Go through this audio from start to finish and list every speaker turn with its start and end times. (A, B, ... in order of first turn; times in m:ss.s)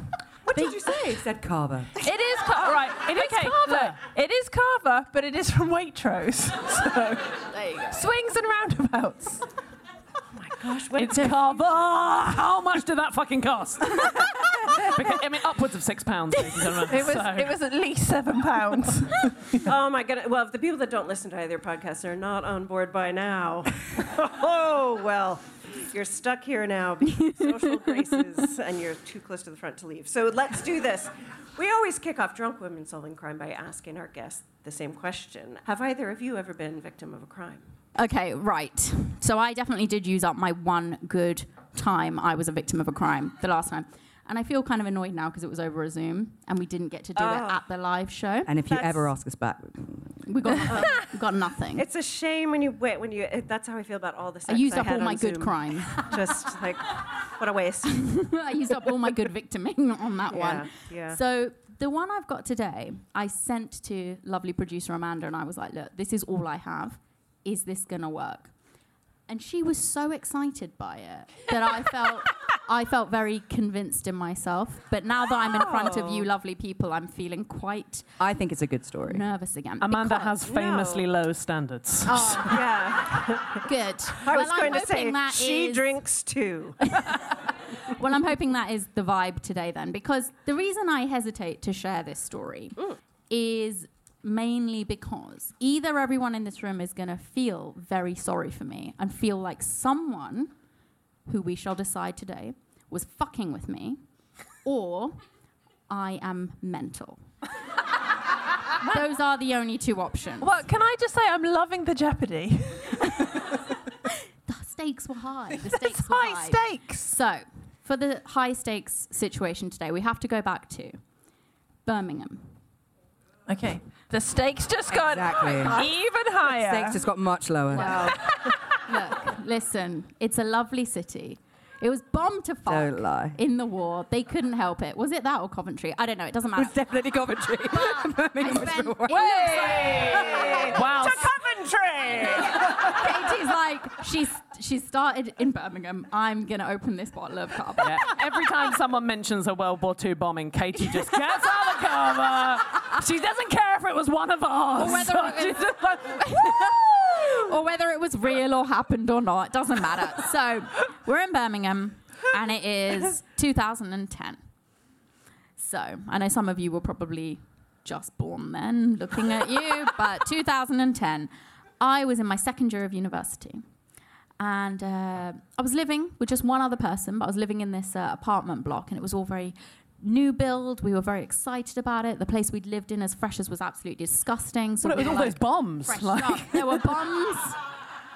0:00.6-0:01.0 A
0:00.6-0:02.0 B
0:00.6-0:00.9 C
0:02.0-0:09.4 A
0:02.8-0:04.0 D
0:03.2-0:03.6 E
0:07.5-0:08.0 E
0:10.3-0:11.8 C
0:10.9-0:17.5 D
0:16.6-0:19.4 A
0:19.6-0:37.6 C
0:38.0-0:48.5 E
0:47.2-0:47.6 C
0:48.4-0:50.2 B
0:48.7-0:49.1 C
0:50.2-0:51.8 E
0:50.7-0:51.1 C
0:51.8-0:58.3 C
0:54.5-0:56.1 E
0:58.0-1:08.5 E
1:00.3-1:01.2 C
1:09.3-1:18.1 E
1:15.4-1:16.3 C
1:18.2-1:19.2 B
1:19.1-1:20.4 E
1:19.8-1:22.5 D
1:20.4-1:21.1 C
1:22.1-1:22.6 E
1:22.3-1:27.0 C
1:23.6-1:25.9 E
1:26.9-1:32.8 E
1:33.3-1:40.5 E
1:41.2-1:44.0 E
1:44.6-1:45.2 E
1:45.9-1:47.2 E
1:48.8-1:50.6 E
1:50.4-1:53.4 A
1:53.0-1:53.6 E
1:54.1-2:01.0 E
1:55.7-1:57.2 A
2:01.8-2:02.6 E
2:03.5-2:07.0 A
2:04.9-2:05.9 B
2:06.4-2:08.2 B
2:07.7-2:16.8 E
2:12.7-2:13.4 B
2:16.6-2:19.7 B
2:17.7-2:20.7 E
2:19.7-2:23.0 C
2:20.7-2:21.3 D
2:22.8-2:28.2 E
2:27.8-2:35.8 D
2:34.8-2:44.4 E
2:45.6-2:53.6 E
2:54.4-3:07.6 E
3:04.8-3:07.0 D